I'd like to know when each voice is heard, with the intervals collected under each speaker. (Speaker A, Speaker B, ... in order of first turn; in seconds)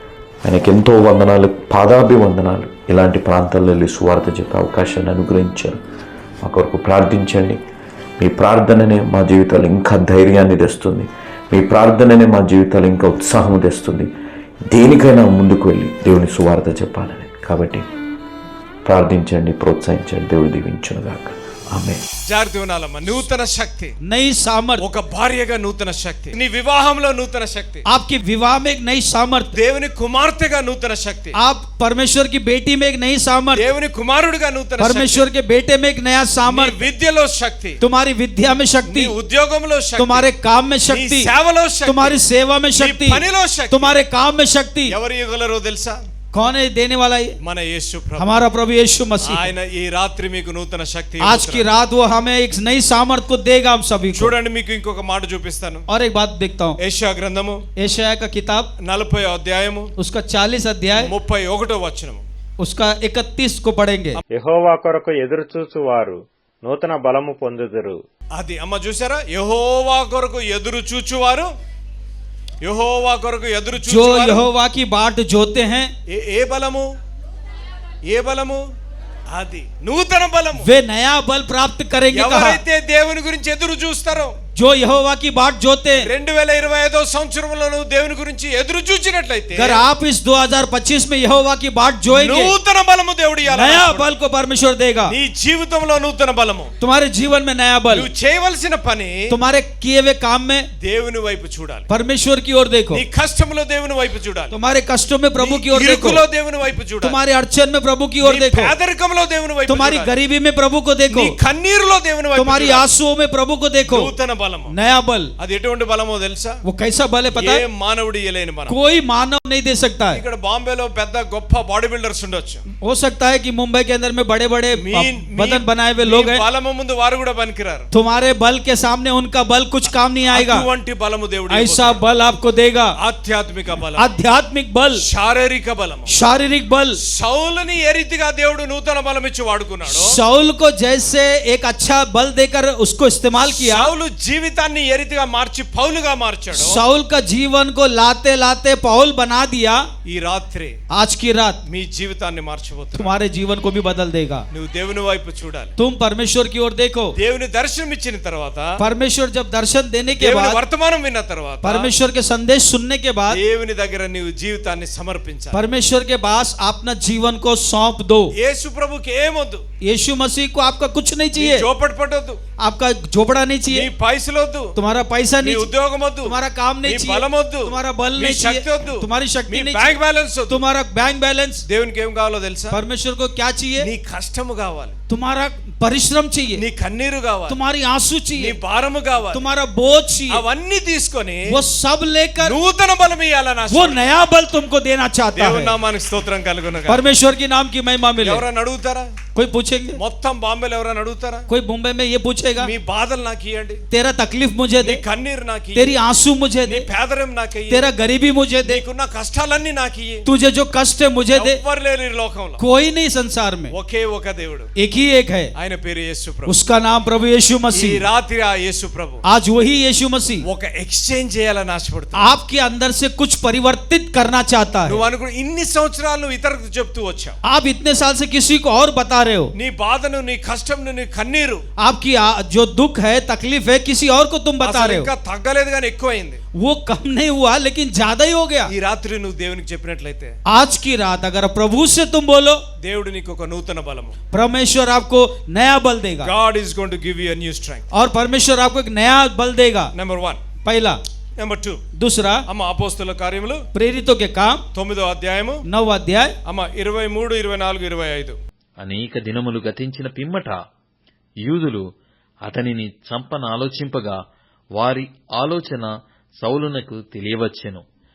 Speaker A: 0.4-5.8, 6.4-7.6, 8.2-14.1, 14.7-17.8, 18.8-22.0
Speaker B: 22.3-23.9, 24.8-27.8, 29.5-31.4, 33.5-35.2, 36.4-37.8, 38.9-40.3, 40.9-42.2, 42.7-44.0, 44.9-46.0, 47.4-48.4, 49.2-51.7, 54.1-55.8, 56.8-57.6, 58.8-59.9, 61.0-62.2, 68.3-71.5, 72.6-74.5, 76.1-76.9, 78.0-78.6, 79.3-80.7, 82.1-84.4, 86.0-89.8, 92.1-94.0, 95.1-96.7, 97.9-99.3, 100.8-101.9, 102.9-104.5, 105.4-107.2, 108.2-110.1, 111.1-112.9, 113.9-114.7, 115.4-116.5, 117.3-118.7, 120.1-122.6, 124.8-127.9, 130.3-132.0, 133.0-134.1, 135.0-136.1, 137.0-140.2, 143.4-146.8, 150.1-150.8, 151.7-153.1, 154.5-155.7, 157.2-158.7, 160.2-161.9, 163.3-165.6, 168.3-169.6, 171.3-172.4, 173.7-174.7, 175.4-180.6, 181.7-182.8, 183.8-184.9, 186.6-187.6, 188.3-189.4, 190.3-191.4, 192.4-194.1, 195.3-197.0, 198.2-199.2, 200.0-201.4, 202.6-203.8, 204.8-205.9, 206.6-207.8, 208.6-210.2, 211.3-212.6, 213.7-214.7, 215.6-216.5, 217.7-219.2, 220.4-222.3, 224.8-227.3, 229.5-231.6, 234.6-236.4, 238.7-240.4, 242.8-244.1, 246.2-247.8, 249.9-250.4, 251.4-251.8, 252.5-253.6, 254.7-255.6, 256.4-258.4
Speaker C: 24.0-24.8, 27.9-29.5, 31.4-33.6, 34.8-36.8, 37.8-39.1, 40.0-41.3, 41.9-44.9, 46.3-47.4, 48.2-49.5, 51.2-54.3, 55.9-56.8, 57.8-58.7, 60.0-61.1, 62.6-64.2, 73.8-75.9, 80.6-82.6, 84.5-86.1, 89.5-92.5, 93.5-95.1, 96.8-98.1, 99.3-100.7, 101.9-103.0, 104.5-106.2, 107.0-108.7, 109.7-111.3, 112.3-114.1, 114.7-115.3, 116.6-117.6, 118.7-120.2, 122.7-126.4, 127.9-130.6, 131.5-132.9, 134.0-135.0, 136.1-137.0, 139.9-143.9, 146.5-149.8, 150.9-151.6, 152.9-154.4, 155.8-157.1, 158.8-160.6, 161.6-163.4, 165.5-168.3, 169.8-171.6, 172.6-173.9, 174.7-175.7, 176.2-179.9, 180.5-181.6, 182.7-183.9, 185.1-186.6, 187.5-188.6, 189.3-190.4, 191.5-192.6, 193.7-195.7, 196.9-198.4, 199.3-200.0, 201.5-202.7, 203.9-205.0, 205.7-206.8, 207.7-208.8, 210.2-211.6, 212.6-213.7, 214.8-215.5, 216.5-218.0, 219.2-220.4, 222.2-225.0, 227.4-229.5, 231.8-235.1, 236.6-238.7, 240.5-242.6, 244.3-246.3, 247.9-249.9, 250.6-251.0, 251.9-252.4, 253.7-254.6, 255.7-256.3
Speaker D: 64.3-68.0
Speaker E: 258.8-260.6, 261.4-261.9, 262.4-264.2, 264.7-267.8